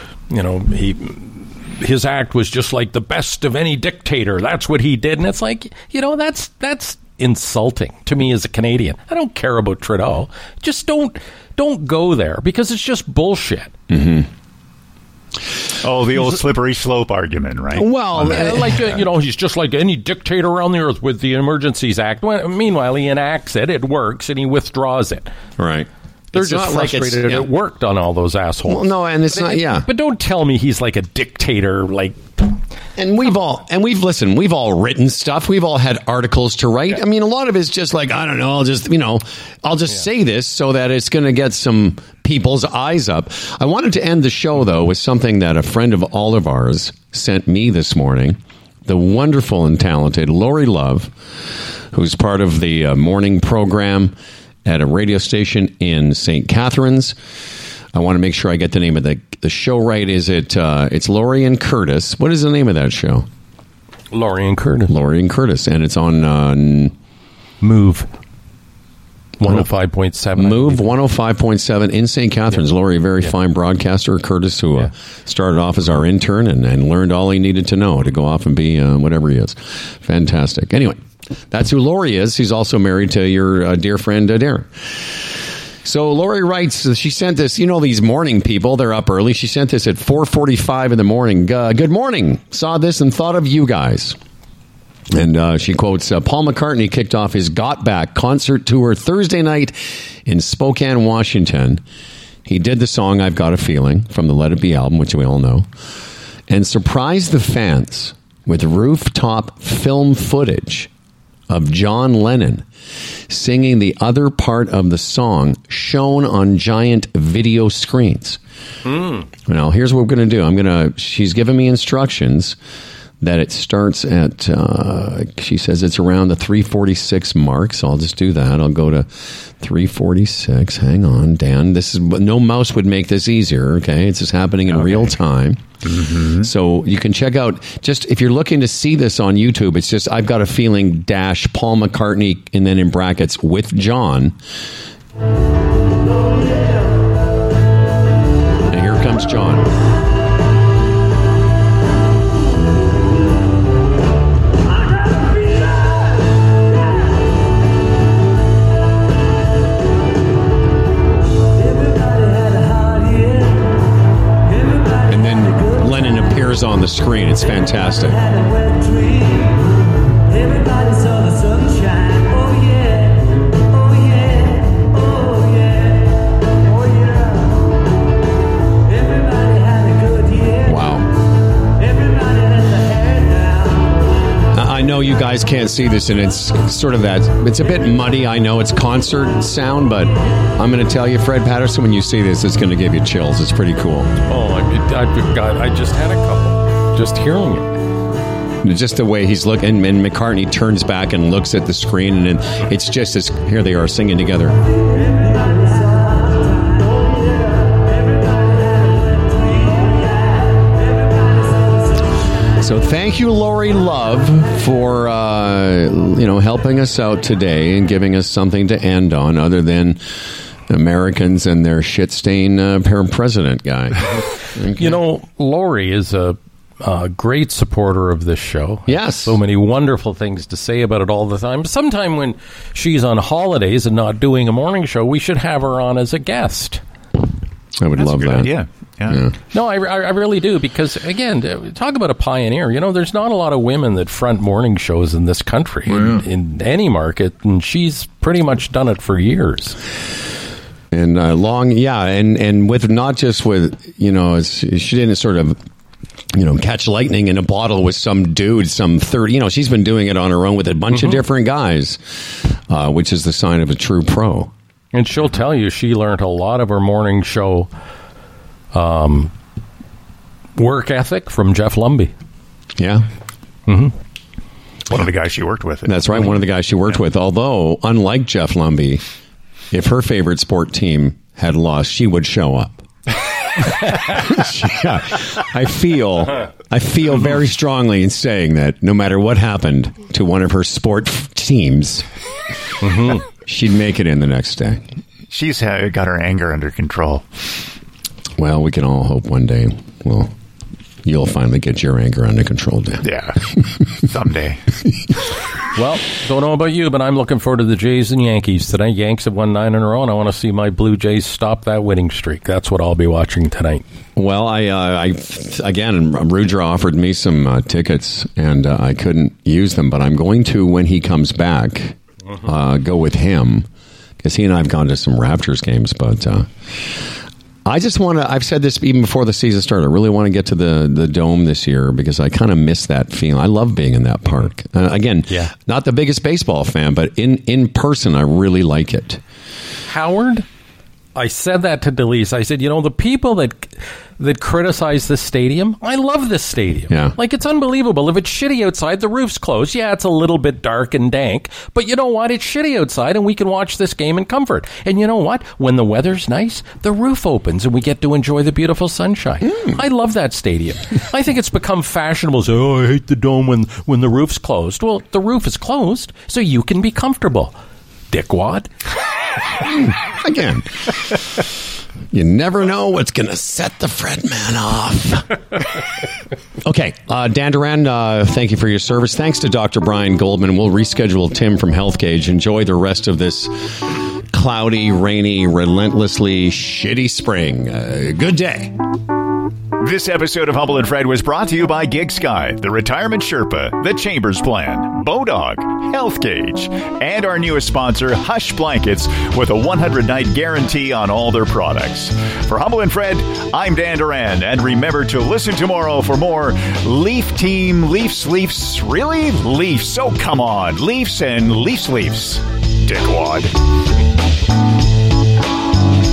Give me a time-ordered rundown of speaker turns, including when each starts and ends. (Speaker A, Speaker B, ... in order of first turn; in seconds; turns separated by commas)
Speaker A: 0.3-13.7, Speaker B: 13.9-14.3, Speaker C: 15.8-17.9, Speaker B: 17.7-19.0, Speaker A: 18.2-25.3, Speaker B: 25.6-27.5, Speaker A: 26.3-32.5, Speaker B: 28.6-29.9, Speaker B: 33.0-51.1, Speaker B: 51.9-54.1, Speaker B: 54.6-57.1, Speaker B: 57.9-63.2, Speaker A: 64.1-64.9, Speaker B: 64.9-66.9, Speaker A: 67.6-68.1, Speaker A: 69.4-70.9, Speaker B: 70.4-94.2, Speaker B: 95.1-101.8, Speaker B: 102.5-105.7, Speaker B: 106.5-110.9, Speaker B: 111.5-112.7, Speaker B: 113.3-118.4, Speaker A: 118.8-119.2, Speaker B: 119.5-122.5, Speaker B: 123.2-135.6, Speaker C: 135.8-136.5, Speaker B: 136.4-144.3, Speaker B: 148.7-149.7, Speaker B: 165.1-168.2, Speaker B: 180.6-181.1, Speaker B: 184.5-194.1, Speaker A: 194.3-197.7, Speaker B: 198.6-204.6, Speaker B: 212.6-225.0, Speaker A: 224.8-236.8, Speaker B: 228.9-229.4, Speaker B: 237.8-238.5, Speaker C: 238.0-239.2, Speaker B: 239.1-239.3, Speaker A: 239.5-249.8, Speaker B: 245.9-246.2, Speaker B: 250.9-255.6, Speaker B: 256.3-264.5, Speaker A: 264.9-267.7, Speaker A: 268.7-269.3, Speaker A: 270.6-272.1, Speaker B: 272.8-273.1, Speaker A: 273.7-273.9, Speaker C: 274.9-276.0, Speaker B: 275.9-279.0, Speaker B: 279.7-282.8, Speaker B: 283.8-292.1, Speaker A: 292.8-293.2, Speaker B: 293.4-294.8, Speaker C: 295.3-297.3, Speaker B: 298.4-300.3, Speaker B: 301.0-303.1, Speaker C: 303.0-304.6, Speaker A: 305.7-313.8, Speaker B: 314.1-323.7, Speaker B: 324.2-326.5, Speaker B: 327.6-339.2, Speaker A: 339.9-340.4, Speaker A: 341.1-367.5, Speaker B: 346.9-347.1, Speaker A: 368.1-368.7, Speaker B: 369.6-370.7, Speaker B: 372.1-375.3, Speaker B: 376.6-383.8, Speaker B: 384.3-388.8, Speaker C: 389.8-413.6